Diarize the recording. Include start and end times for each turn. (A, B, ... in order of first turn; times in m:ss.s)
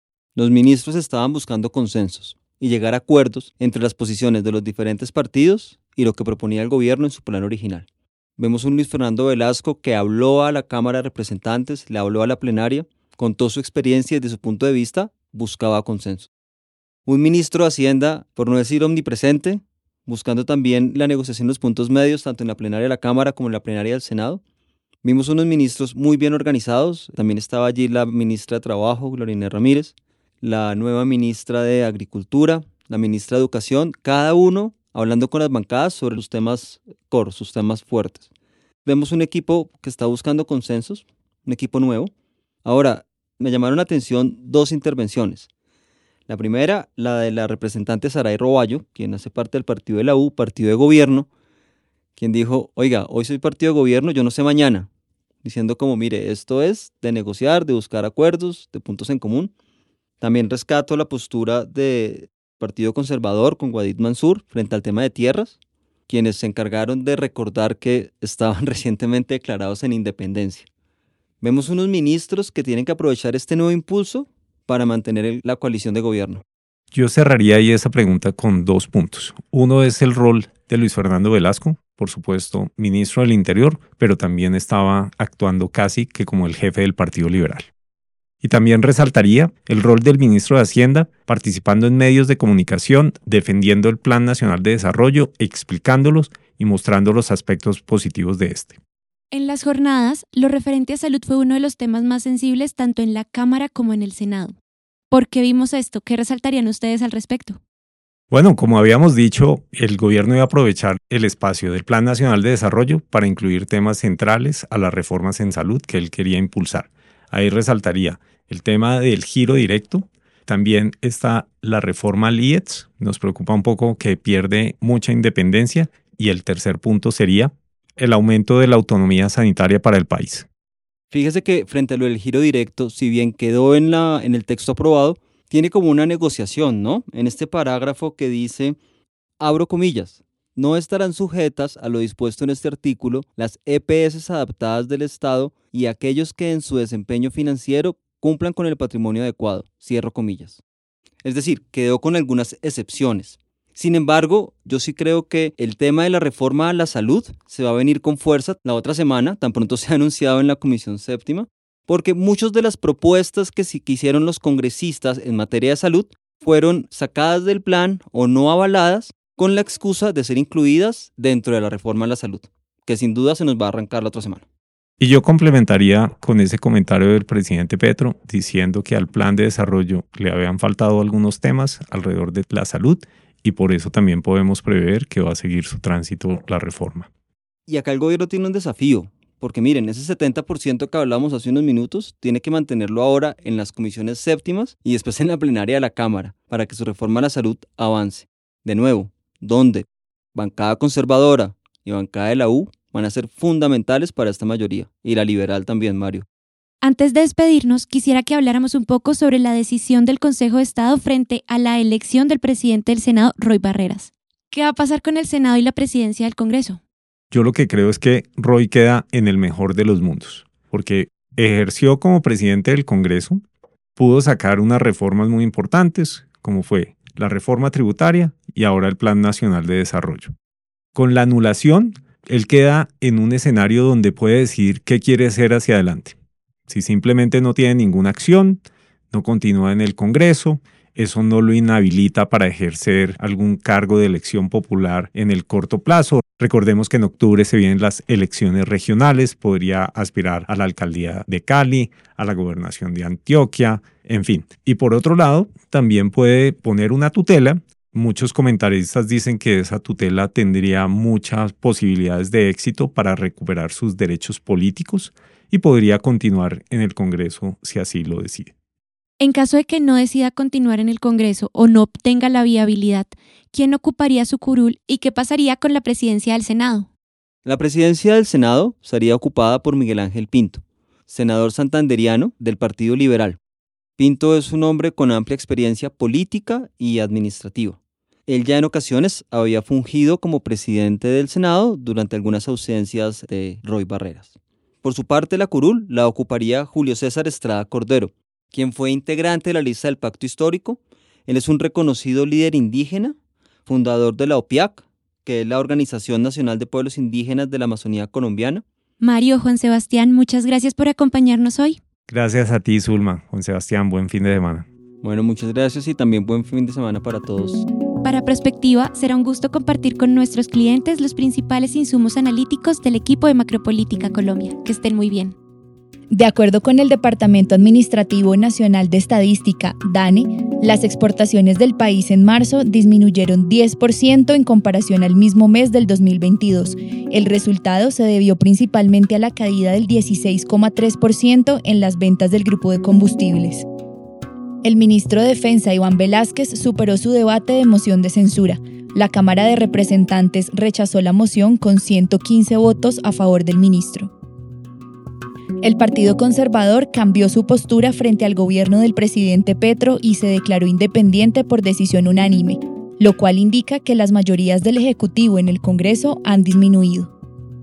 0:00.3-0:07.8 A
0:08.4-0:16.3 A
0:17.0-0:24.4 A
0:25.0-0:38.2 A
0:38.8-0:42.1 A
0:42.6-0:45.5 A
0:46.3-0:51.3 A
0:52.2-0:54.9 A
0:55.4-0:59.5 A
1:00.2-1:05.6 A
1:06.1-1:10.7 A
1:11.4-1:16.4 A
1:16.9-1:27.7 B
1:28.4-1:38.8 B
1:39.3-1:44.6 C
1:45.1-1:47.6 C
1:48.3-2:10.5 B
2:11.1-2:18.8 A
2:19.4-2:30.6 A
2:31.2-2:54.4 A
2:55.0-3:07.1 B
3:07.7-3:26.2 A
3:26.8-3:36.8 C
3:37.3-3:43.4 B
3:44.0-3:50.3 B
3:50.9-3:56.1 B
3:56.7-4:28.5 B
4:29.2-4:36.9 C
4:37.4-4:43.4 A
4:44.0-5:03.1 A
5:03.6-5:08.6 A
5:09.0-5:11.8 C
5:12.1-5:14.7 B
5:15.0-5:17.6 A
5:18.0-5:25.3 C
5:26.1-5:43.6 D
5:44.6-5:54.1 D
5:55.6-6:07.1 D